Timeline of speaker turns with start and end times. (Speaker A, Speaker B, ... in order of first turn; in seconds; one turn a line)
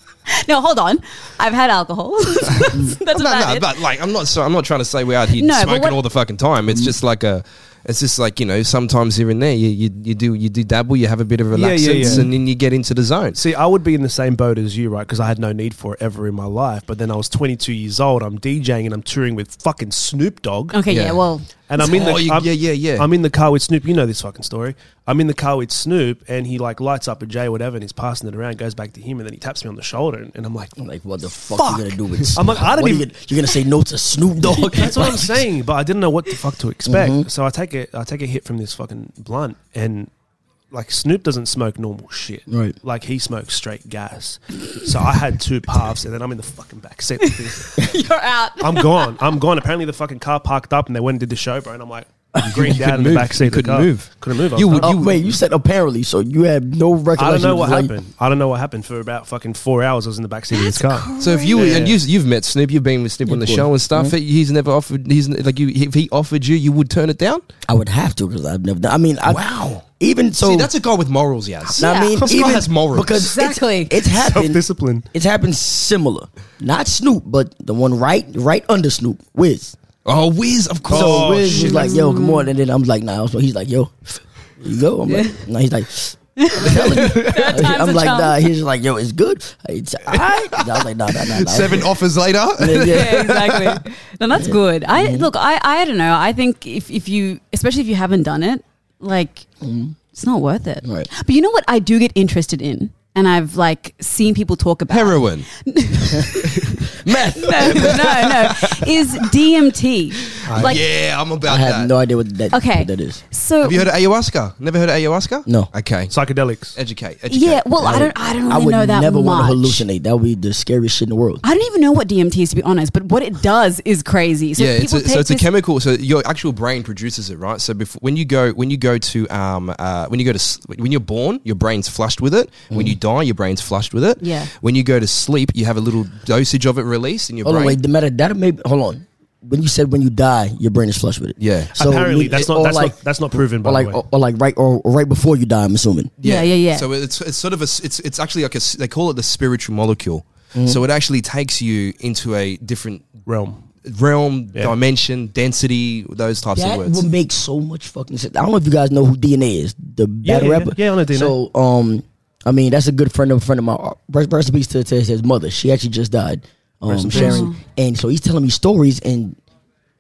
Speaker A: 0.3-3.8
Speaker B: 2.5-13.4
Speaker A: 5.4-6.0
Speaker C: 11.5-12.3
Speaker D: 12.0-12.3
Speaker C: 13.3-20.8
Speaker A: 20.7-21.5
Speaker B: 20.9-21.2
Speaker C: 21.7-30.8
Speaker B: 21.8-23.1
Speaker D: 30.8-35.4
Speaker C: 31.5-33.1
Speaker C: 34.7-40.1
Speaker D: 36.9-37.3
Speaker C: 40.7-47.8
Speaker D: 42.5-42.8
Speaker A: 47.2-49.1
Speaker C: 48.6-55.0
Speaker D: 52.4-52.7
Speaker B: 52.4-55.2
Speaker D: 54.8-57.9
Speaker C: 57.2-62.0
Speaker A: 60.5-61.8
Speaker B: 61.2-67.4
Speaker D: 63.3-64.1
Speaker D: 67.7-70.7
Speaker B: 69.2-69.8
Speaker B: 70.4-73.3
Speaker D: 71.7-74.6
Speaker A: 71.8-72.3
Speaker A: 73.1-74.0
Speaker C: 74.0-75.1
Speaker D: 75.1-79.8
Speaker B: 80.0-81.4
Speaker C: 80.9-81.9
Speaker D: 80.9-91.9
Speaker A: 81.5-82.5
Speaker A: 85.1-85.4
Speaker A: 86.4-88.5
Speaker B: 86.9-87.5
Speaker B: 90.2-93.8
Speaker D: 92.6-93.4
Speaker A: 92.8-99.5
Speaker D: 94.3-95.3
Speaker D: 99.6-100.0
Speaker A: 100.1-110.8
Speaker D: 100.8-101.1
Speaker B: 104.9-105.5
Speaker B: 106.4-108.9
Speaker D: 107.0-108.2
Speaker B: 110.4-111.9
Speaker C: 110.5-110.8
Speaker D: 111.4-113.2
Speaker A: 112.5-113.9
Speaker B: 113.6-116.2
Speaker C: 116.1-116.8
Speaker B: 116.7-118.0
Speaker A: 117.3-119.8
Speaker D: 117.8-121.4
Speaker A: 121.4-125.5
Speaker B: 124.6-137.8
Speaker D: 132.7-133.0
Speaker A: 134.2-134.5
Speaker D: 137.4-146.1
Speaker B: 141.4-141.7
Speaker C: 141.8-144.0
Speaker B: 146.2-153.2
Speaker A: 146.2-146.9
Speaker D: 150.5-150.8
Speaker C: 153.3-153.6
Speaker B: 153.8-157.1
Speaker D: 156.5-169.4
Speaker C: 160.2-161.3
Speaker C: 166.9-167.5
Speaker A: 167.1-167.6